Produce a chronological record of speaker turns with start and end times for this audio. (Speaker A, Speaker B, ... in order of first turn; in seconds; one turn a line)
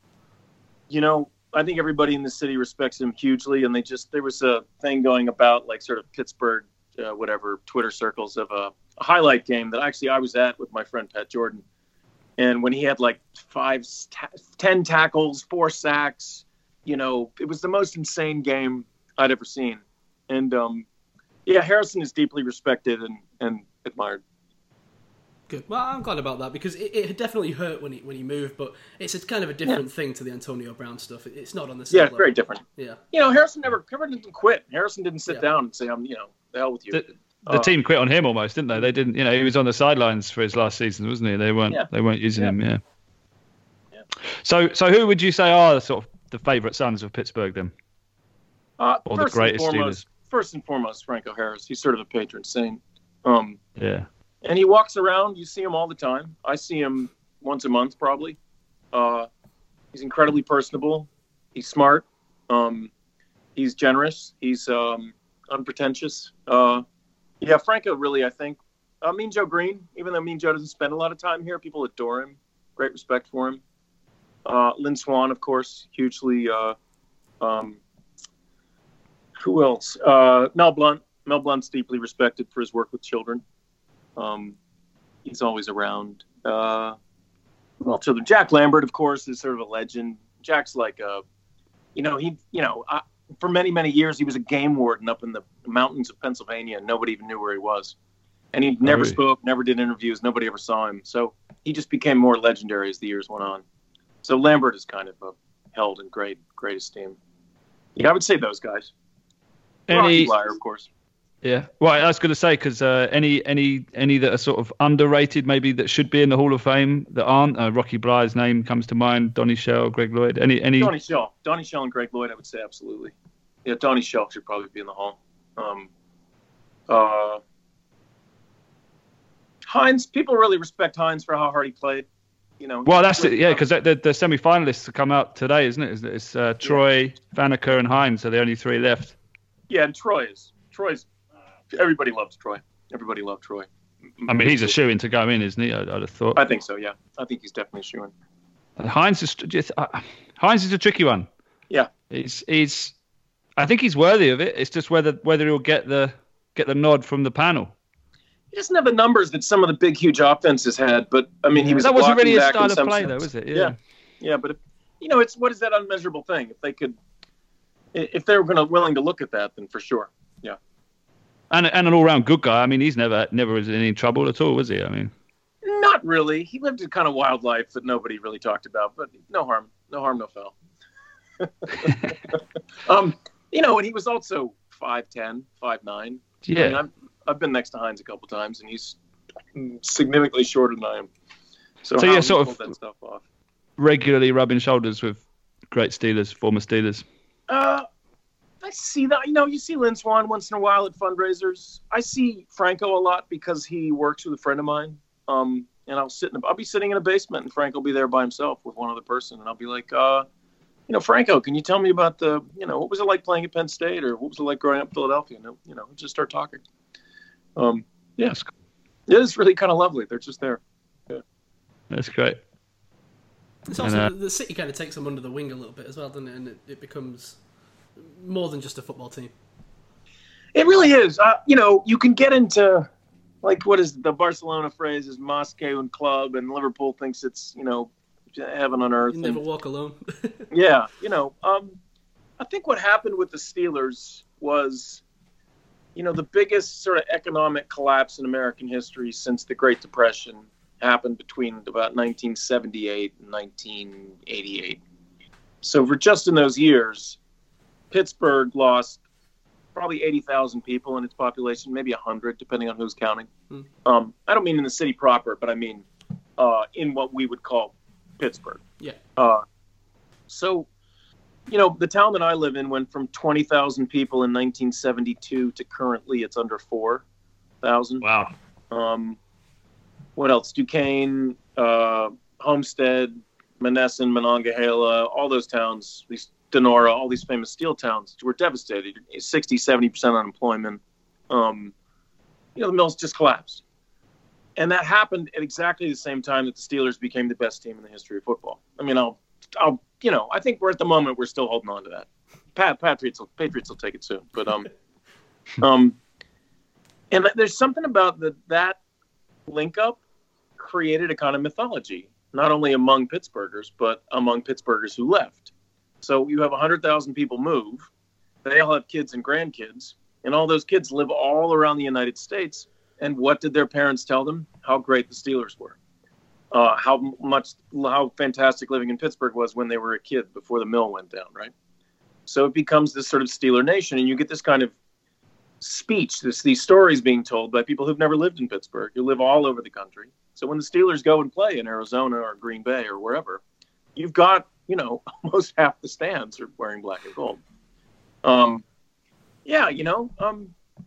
Speaker A: 0.9-11.6
Speaker A: 12.4-20.9
Speaker A: 21.5-24.2
Speaker B: 25.5-33.0
Speaker A: 31.9-37.7
Speaker C: 36.9-42.8
Speaker A: 41.7-42.5
Speaker C: 44.4-47.7
Speaker A: 48.8-53.6
Speaker C: 49.1-50.0
Speaker C: 53.8-54.1
Speaker A: 54.4-58.4
Speaker A: 58.9-59.3
Speaker A: 59.9-62.9
Speaker A: 63.6-66.8
Speaker A: 67.4-73.6
Speaker A: 74.5-76.8
Speaker A: 77.4-77.8
Speaker A: 79.4-83.4
Speaker A: 84.2-84.6
Speaker A: 85.2-87.0
Speaker A: 87.8-91.2
Speaker A: 92.0-98.0
Speaker A: 98.5-103.6
Speaker C: 98.8-99.2
Speaker A: 104.2-107.2
Speaker A: 108.0-108.9
Speaker C: 109.9-110.3
Speaker A: 109.9-110.9
Speaker C: 111.4-120.9
Speaker A: 120.8-123.1
Speaker A: 123.7-125.9
Speaker A: 126.9-127.4
Speaker A: 129.7-132.1
Speaker A: 132.6-133.6
Speaker C: 132.8-139.2
Speaker A: 139.7-141.1
Speaker A: 141.7-143.7
Speaker A: 144.2-144.8
Speaker C: 144.3-146.4
Speaker A: 146.3-148.1
Speaker C: 148.8-151.3
Speaker C: 152.1-152.9
Speaker C: 153.6-157.7
Speaker A: 158.5-167.0
Speaker C: 161.8-163.8
Speaker A: 167.9-170.6
Speaker C: 171.5-175.1
Speaker A: 175.6-180.6
Speaker A: 181.4-182.2
Speaker A: 182.9-189.0
Speaker C: 186.4-186.8
Speaker A: 189.6-191.1
Speaker A: 191.8-193.2
Speaker C: 192.0-192.7
Speaker C: 193.8-197.1
Speaker A: 197.5-197.9
Speaker A: 198.6-210.3
Speaker A: 210.9-216.6
Speaker A: 217.6-218.4
Speaker A: 219.1-221.2
Speaker C: 221.9-222.4
Speaker B: 223.7-227.4
Speaker C: 223.8-224.1
Speaker B: 228.0-229.3
Speaker A: 230.5-232.9
Speaker A: 233.4-239.4
Speaker B: 239.1-240.5
Speaker A: 240.5-241.8
Speaker A: 242.4-245.0
Speaker A: 245.9-254.8
Speaker A: 255.6-257.2
Speaker A: 257.9-259.0
Speaker A: 259.8-263.3
Speaker A: 263.9-265.9
Speaker A: 266.4-268.6
Speaker A: 269.2-269.4
Speaker A: 270.3-270.7
Speaker A: 271.5-277.1
Speaker A: 277.6-278.1
Speaker C: 278.0-278.3
Speaker A: 278.7-279.2
Speaker A: 280.2-291.7
Speaker A: 292.6-293.6
Speaker A: 294.6-304.7
Speaker A: 305.6-306.0
Speaker A: 307.1-308.8
Speaker A: 309.5-310.0
Speaker A: 310.6-315.5
Speaker A: 316.0-317.9
Speaker A: 318.4-325.8
Speaker A: 326.5-331.5
Speaker A: 332.3-334.7
Speaker A: 335.6-343.4
Speaker A: 344.0-347.4
Speaker A: 348.2-348.6
Speaker A: 349.4-350.6